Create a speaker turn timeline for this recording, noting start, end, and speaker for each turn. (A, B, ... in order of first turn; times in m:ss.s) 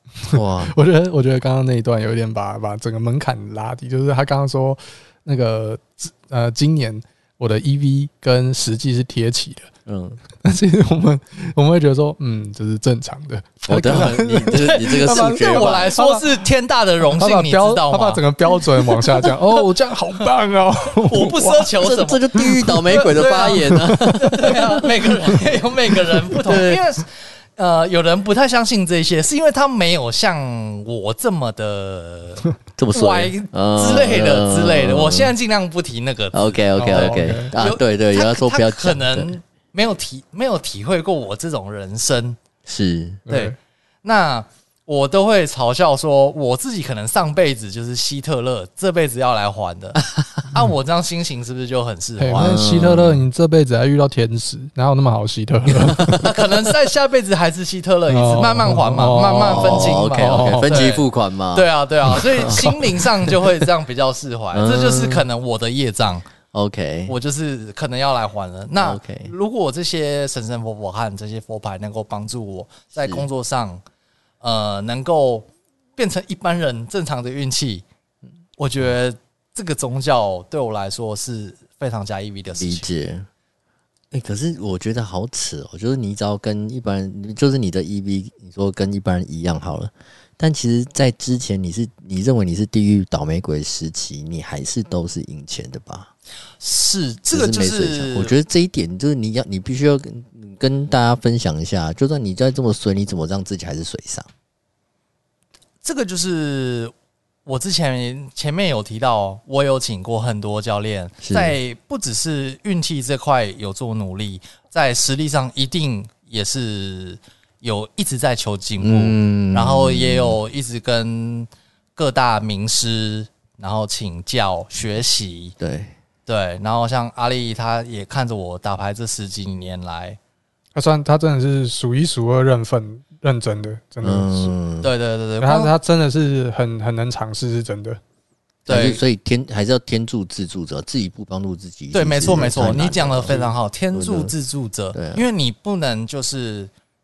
0:00.2-0:09.7 A
0:00.3-0:00.7 B
0:09.8-0:10.2 B
0:10.4-0:16.3 A
0:13.7-0:16.0 B
0:14.5-0:19.6 C
0:17.2-0:21.7 A
0:21.0-0:42.4 C
0:21.8-0:24.8 B
0:23.6-0:24.2 A
0:26.3-0:26.8 B
0:32.8-0:35.3 B
0:36.3-0:39.3 B
0:36.8-0:37.5 A
0:42.6-0:43.2 B
0:43.3-0:43.6 A
0:43.3-0:52.6 C
0:50.2-0:50.5 B
0:52.2-0:56.3 A
0:52.3-0:53.2 B
0:55.7-0:56.3 B
0:56.2-1:06.3 C
0:58.1-1:00.8 A
0:59.4-1:03.4 B
1:04.5-1:05.2 B
1:06.5-1:07.2 B
1:07.1-1:13.8 C
1:08.8-1:09.3 B
1:13.0-1:13.3 B
1:14.4-1:17.8 C
1:18.6-1:22.9 C
1:22.6-1:23.3 B
1:24.1-1:36.1 B
1:36.6-1:38.3 C
1:37.3-1:44.3 B
1:45.8-1:46.9 C
1:47.4-2:05.5 C
1:51.2-1:51.6 B
1:58.8-2:00.4 B
2:05.6-2:05.9 B
2:06.3-2:10.2 C
2:10.7-2:14.5 A
2:14.0-2:14.9 B
2:14.8-2:15.7 C
2:15.4-2:18.0 A
2:18.7-2:19.0 C
2:18.7-2:24.3 B
2:21.9-2:26.7 C
2:24.9-2:25.2 B